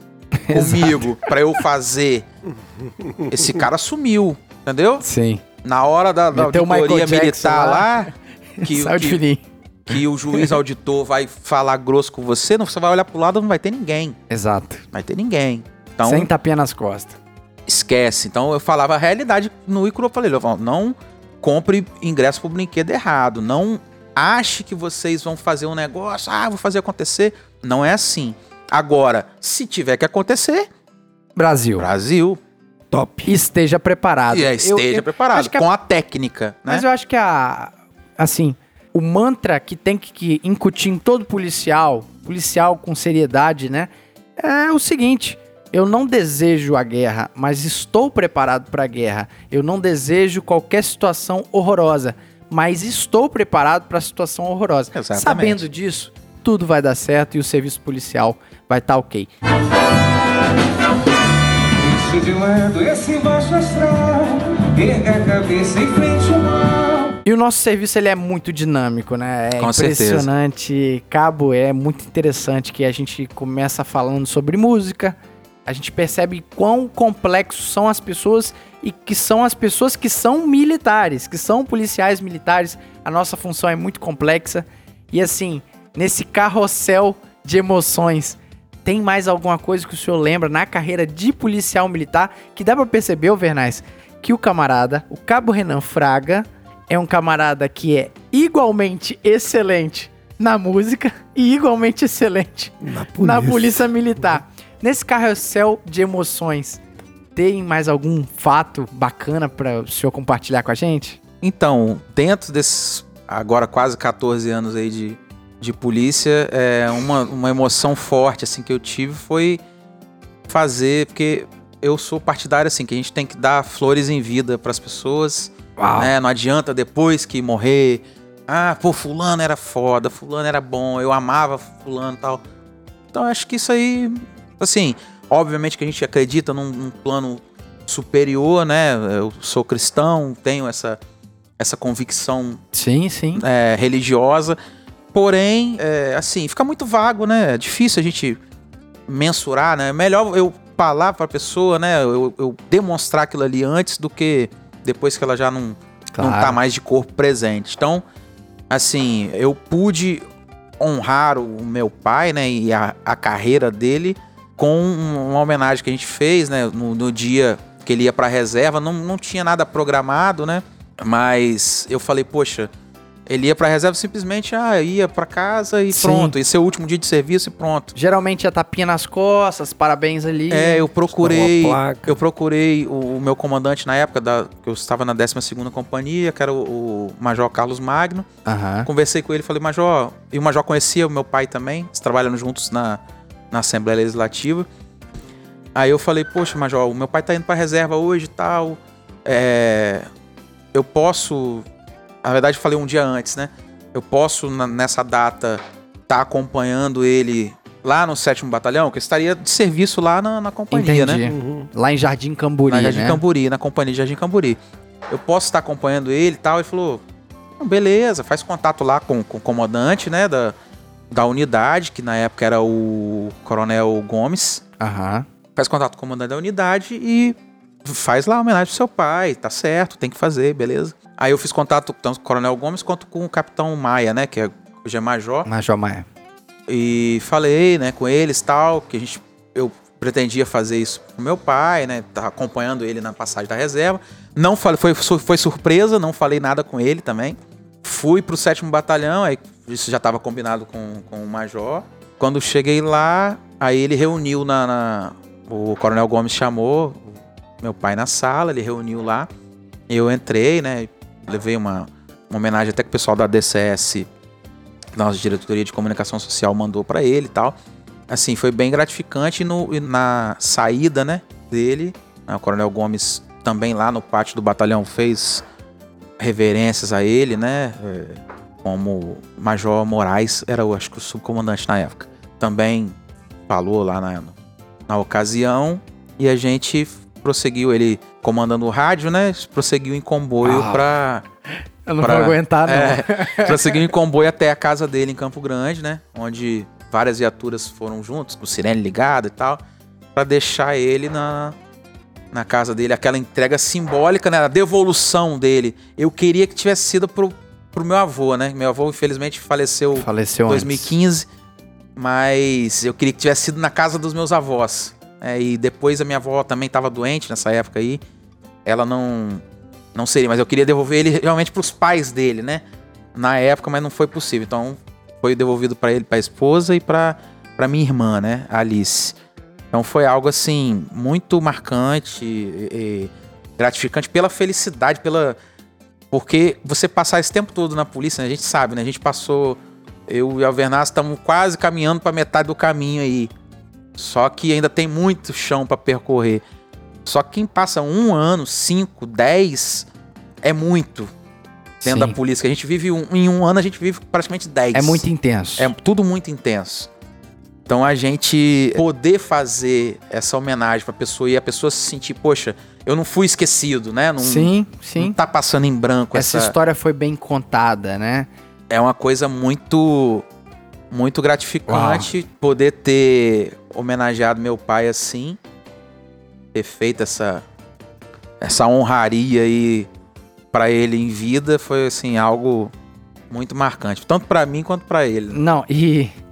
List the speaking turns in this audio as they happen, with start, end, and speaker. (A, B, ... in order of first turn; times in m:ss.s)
0:00.4-0:01.2 A
0:00.5-0:02.2 B
0:02.5-0:03.6 C
0:03.3-0:05.0 B
0:05.0-0:05.4 A
0:05.6-0:09.2 B
0:06.3-0:08.0 A
0:08.6-0:09.4 A
0:09.9-0:14.2 B
0:09.9-0:10.5 A
0:14.3-0:14.8 A
0:14.9-0:16.3 B
0:16.0-0:17.2 A
0:17.7-0:30.7 B
0:31.4-0:31.9 A
0:31.8-0:32.4 B
0:32.9-0:33.4 C
0:33.2-0:35.6 A
0:34.3-0:36.8 B
0:36.7-0:59.3 A
0:54.9-0:55.6 B
1:01.5-1:07.2 D
1:07.2-1:46.8 A
1:09.6-1:10.3 B
1:42.8-1:44.2 C
1:47.4-1:51.2 A
1:51.4-1:59.6 B
2:00.5-2:12.4 B
2:05.8-2:06.1 A
2:13.1-2:21.0 B
2:21.6-2:22.6 B
2:22.7-2:23.4 A
2:23.3-2:24.6 B
2:25.1-2:28.4 B
2:29.1-2:38.0 B
2:36.2-2:36.6 A
2:38.7-2:40.2 B
2:40.8-2:52.7 B
2:53.3-2:57.9 B
2:55.9-2:56.3 A
2:57.9-3:00.8 A
3:00.5-3:08.3 B
3:01.1-3:02.2 C
3:08.4-3:08.9 A
3:08.8-3:13.0 B
3:13.5-3:14.7 B
3:15.7-3:20.1 B
3:20.7-3:21.6 B
3:22.2-3:31.2 B
3:30.7-3:33.2 A
3:31.2-3:31.7 C
3:32.7-3:37.0 B
3:37.6-3:40.5 B
3:41.1-3:44.6 B
3:44.8-3:45.2 A
3:45.6-3:55.5 B
3:55.4-3:56.0 A
3:56.7-4:17.0 B
4:17.6-4:19.3 B
4:19.9-4:24.1 B
4:25.0-4:27.6 B
4:28.1-4:35.4 B
4:36.2-4:42.9 B
4:43.5-4:44.3 B
4:44.9-4:51.2 B
4:50.4-4:51.0 A
4:51.8-4:53.8 A
4:52.0-4:59.6 B
5:00.1-5:01.5 B
5:02.3-5:11.2 B
5:09.9-5:10.9 A
5:12.0-5:18.0 B
5:18.6-5:19.4 B
5:19.9-5:22.6 B
5:23.1-5:29.2 B
5:29.7-5:35.4 B
5:36.1-5:43.3 B
5:44.0-5:46.4 B
5:47.0-5:49.9 B
5:50.4-5:51.1 B
5:51.8-5:52.1 A
5:51.8-5:55.0 B
5:54.7-5:55.7 A
5:55.6-5:56.9 B
5:57.7-6:06.5 B
6:04.2-6:05.2 A
6:06.1-6:08.3 A
6:08.7-6:10.2 B
6:10.9-6:15.4 B
6:11.7-6:12.1 A
6:16.5-6:17.4 B
6:18.4-6:19.9 B
6:20.5-6:22.7 B
6:23.3-6:25.4 B
6:25.3-6:26.1 A